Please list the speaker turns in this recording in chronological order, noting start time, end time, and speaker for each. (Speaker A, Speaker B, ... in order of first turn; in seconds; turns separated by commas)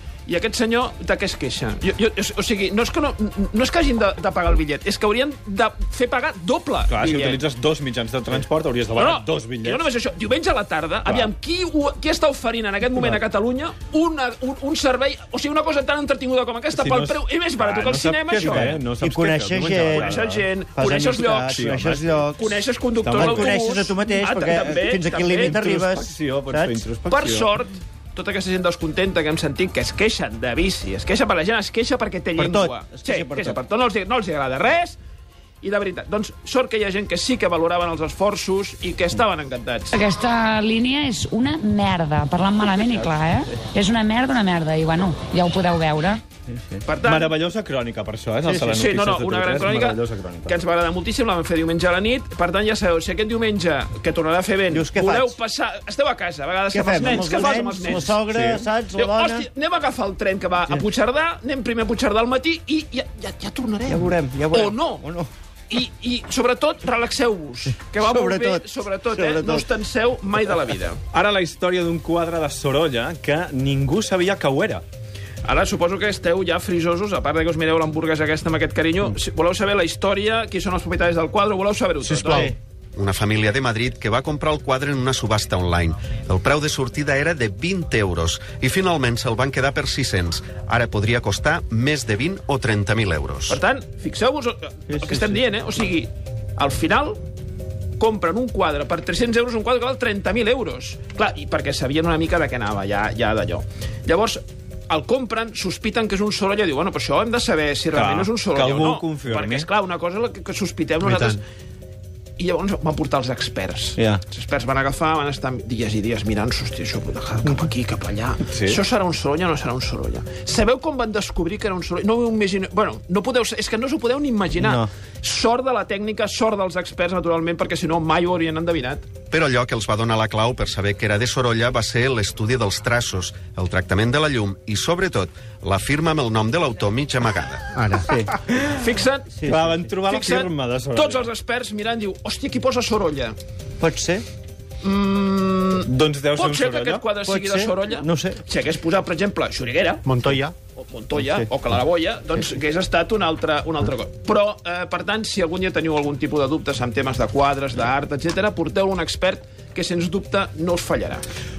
Speaker A: 0.3-7.4, Speaker B: 6.9-9.8, Speaker A: 8.9-18.8, Speaker B: 16.7-20.4, Speaker C: 18.4-20.2, Speaker A: 19.6-25.6, Speaker C: 20.8-26.8, Speaker B: 21.5-22.1, Speaker B: 23.1-23.5, Speaker B: 25.4-27.5, Speaker A: 27.1-35.0, Speaker C: 32.4-33.6, Speaker A: 35.6-40.0, Speaker D: 39.9-46.2, Speaker A: 46.9-47.3, Speaker B: 47.0-50.5, Speaker C: 48.4-48.7, Speaker A: 48.7-58.2, Speaker C: 54.7-55.4, Speaker C: 56.7-59.5, Speaker B: 57.5-58.7, Speaker A: 58.9-65.0, Speaker C: 63.9-65.3, Speaker A: 65.7-71.0, Speaker C: 67.9-69.7, Speaker B: 71.1-74.8, Speaker A: 75.4-82.5, Speaker C: 82.1-82.5, Speaker E: 82.9-93.6, Speaker A: 93.5-97.2, Speaker C: 94.9-95.4, Speaker A: 98.0-111.4, Speaker B: 107.9-109.7, Speaker A: 112.4-129.1, Speaker B: 118.5-118.8, Speaker C: 124.6-124.9, Speaker E: 129.3-137.8, Speaker C: 137.7-138.4, Speaker A: 138.7-139.3, Speaker C: 139.3-139.8, Speaker B: 139.5-141.3, Speaker A: 140.1-143.4, Speaker C: 143.8-144.2, Speaker A: 144.8-150.1, Speaker B: 145.8-147.1, Speaker C: 147.2-148.4, Speaker C: 150.1-150.5, Speaker A: 150.8-161.2, Speaker C: 151.2-151.5